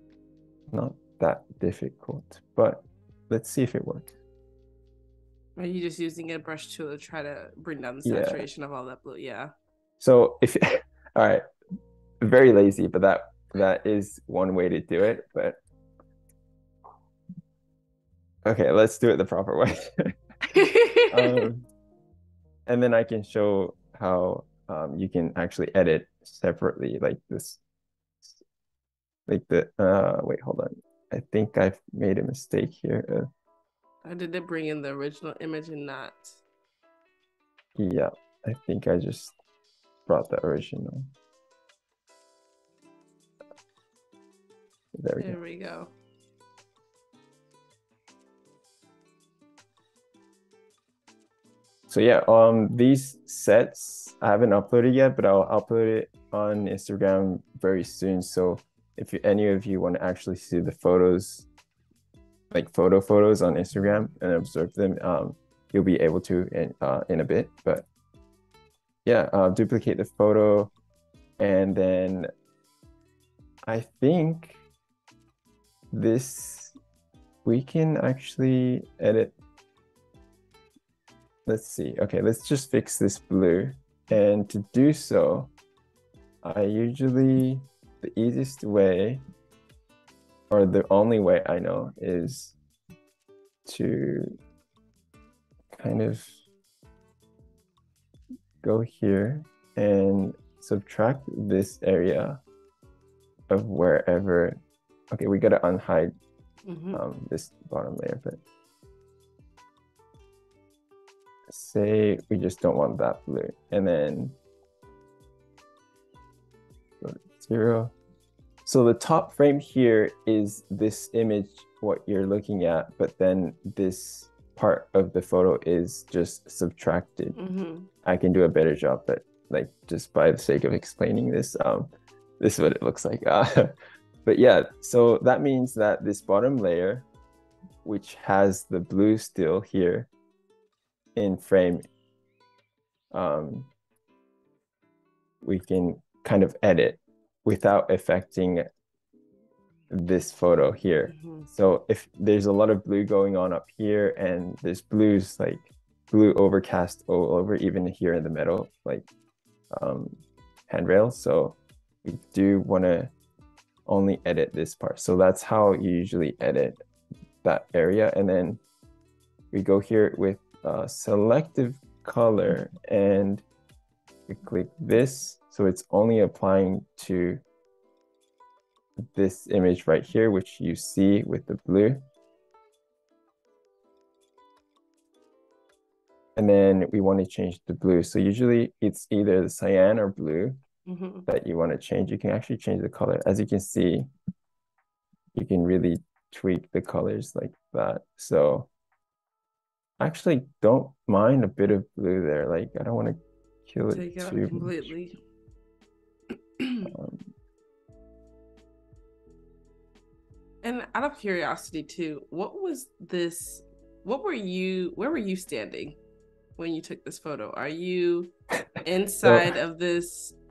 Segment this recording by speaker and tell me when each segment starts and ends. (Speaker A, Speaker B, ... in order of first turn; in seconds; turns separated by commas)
Speaker A: 0.7-4.1, Speaker B: 5.6-9.5, Speaker A: 8.0-8.4, Speaker A: 10.0-11.4, Speaker A: 12.2-15.6, Speaker A: 18.4-20.1, Speaker B: 20.5-21.5, Speaker A: 21.1-21.7, Speaker A: 22.7-27.6, Speaker A: 29.3-33.3, Speaker B: 34.0-36.4, Speaker A: 37.8-39.3, Speaker A: 40.0-41.1, Speaker A: 45.0-45.4, Speaker B: 45.2-45.9, Speaker A: 51.9-61.5, Speaker A: 62.5-67.8, Speaker A: 69.0-70.7, Speaker A: 71.4-72.3, Speaker A: 73.7-74.6, Speaker A: 75.9-76.8, Speaker A: 77.4-79.3, Speaker A: 81.5-85.5, Speaker A: 86.4-89.2, Speaker A: 90.5-92.5, Speaker A: 93.7-94.3, Speaker A: 95.8-96.4, Speaker A: 98.6-102.4, Speaker A: 103.5-104.6, Speaker A: 105.1-106.1, Speaker B: 106.7-107.0, Speaker A: 106.9-108.4, Speaker A: 111.5-114.4, Speaker A: 117.0-117.9, Speaker A: 118.6-127.4, Speaker B: 127.3-127.9, Speaker A: 128.0-137.1, Speaker A: 137.8-140.1, Speaker A: 141.2-141.8, Speaker A: 143.1-143.7, Speaker A: 145.4-148.7, Speaker A: 149.9-159.1, Speaker B: 151.1-151.5, Speaker A: 159.7-163.1, Speaker A: 163.9-166.8, Speaker A: 167.4-168.6, Speaker A: 169.5-173.4, Speaker A: 174.3-177.4, Speaker A: 179.1-182.0, Speaker A: 186.3-190.6, Speaker B: 190.8-191.2, Speaker A: 191.2-194.1, Speaker A: 195.3-198.7, Speaker A: 200.0-204.9, Speaker B: 203.9-205.2, Speaker B: 206.6-206.9, Speaker A: 206.8-207.3, Speaker B: 210.6-216.0, Speaker B: 216.6-218.3, Speaker B: 218.8-220.3, Speaker A: 219.2-219.5